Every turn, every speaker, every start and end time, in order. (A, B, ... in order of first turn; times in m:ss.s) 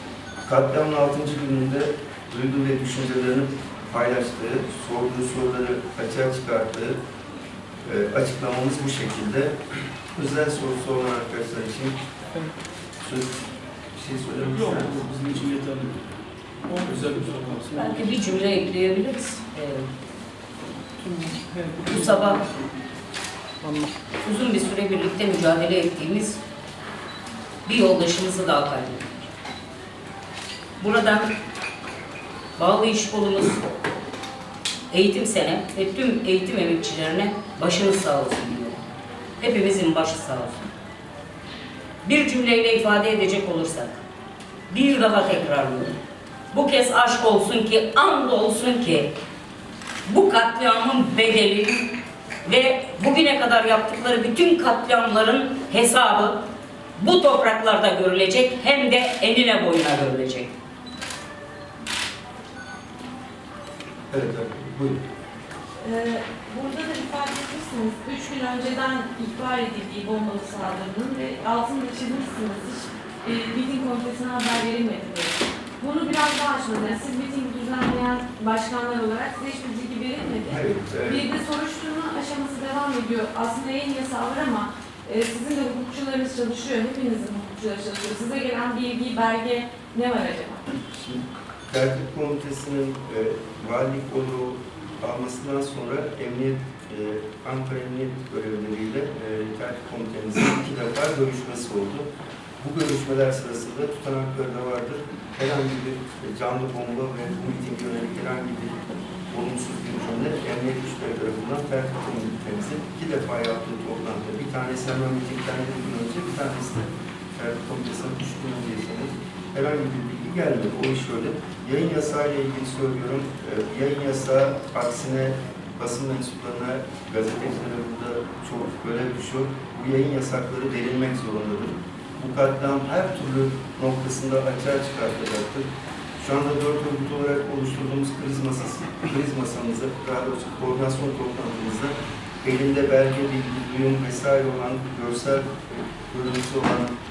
0:00.5-0:07.0 A
0:07.8-0:09.6 A
0:10.2-0:12.0 A
0:13.0-0:15.1 A
0:14.4-0:16.0 B
0:16.7-0:18.0 B
0:17.7-0:19.9 C
0:21.8-0:22.4 C
0:24.2-0:26.4 C
0:27.6-0:29.1 C
0:30.8-0:31.3 C
0:32.6-0:33.6 C
0:34.9-0:38.8 C
0:39.4-0:40.6 C
0:42.0-0:44.0 C
0:44.7-0:46.0 C
0:46.5-0:49.1 C
0:50.1-0:51.9 C
0:52.4-0:56.5 C
0:57.0-1:00.5 C
1:04.1-1:05.0 A
1:05.8-1:30.6 D
1:20.5-1:21.3 A
1:30.9-1:42.1 A
1:42.6-1:48.8 A
1:49.3-2:15.7 A
2:16.2-2:26.9 A